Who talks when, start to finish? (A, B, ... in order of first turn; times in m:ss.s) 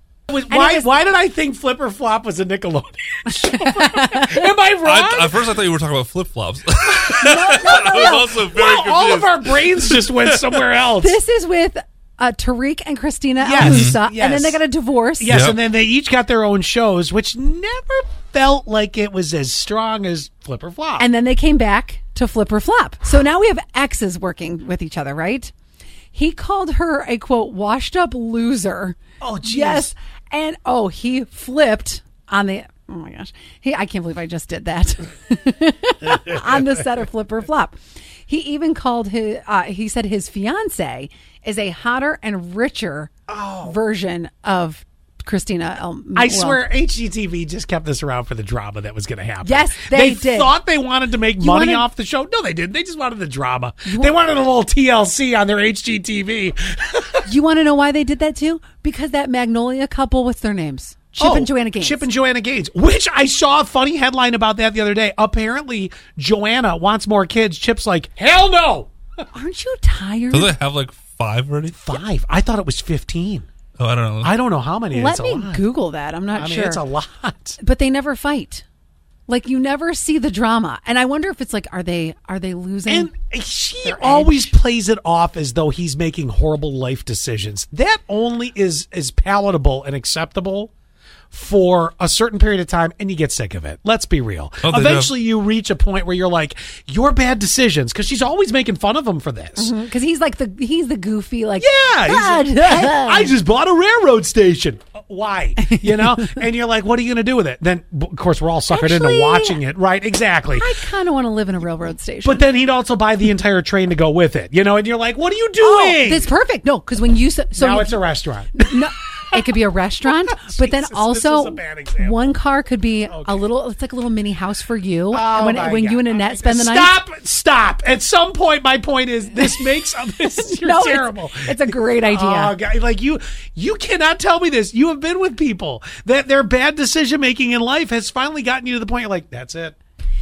0:00.3-0:05.6 A
0:00.5-0:00.9 B
0:03.4-0:04.4 B
0:04.8-0:10.6 C
0:07.2-0:08.3 B
0:07.6-0:11.2 A
0:11.0-0:15.4 B
0:13.4-0:14.6 A
0:13.6-0:14.0 C
0:15.2-0:21.0 A
0:15.3-0:15.6 C
0:21.0-0:25.5 B
0:26.1-0:43.1 B
0:29.2-0:29.9 A
0:36.2-0:36.6 A
0:43.3-0:43.8 A
0:43.6-0:46.6 B
0:46.1-0:57.3 A
0:49.4-0:50.5 B
0:51.4-0:51.8 B
0:53.8-0:54.1 B
0:57.3-1:02.0 B
1:01.2-1:08.9 A
1:09.3-1:10.6 B
1:10.3-1:11.9 C
1:11.7-1:13.5 A
1:13.8-1:14.3 C
1:14.2-1:15.6 A
1:14.9-1:16.8 B
1:16.3-1:17.6 A
1:17.6-1:18.6 B
1:19.3-1:23.1 B
1:22.9-1:30.7 A
1:23.8-1:24.5 B
1:31.3-1:39.7 A
1:34.6-1:35.1 C
1:39.6-1:43.3 B
1:41.6-1:50.8 A
1:45.6-1:46.3 B
1:48.7-1:49.6 B
1:50.6-1:52.4 B
1:52.2-1:56.3 A
1:55.6-1:58.0 B
1:57.6-1:58.6 A
1:58.5-2:07.0 B
2:00.1-2:02.3 A
2:03.1-2:03.4 A
2:05.1-2:19.8 A
2:10.4-2:12.6 B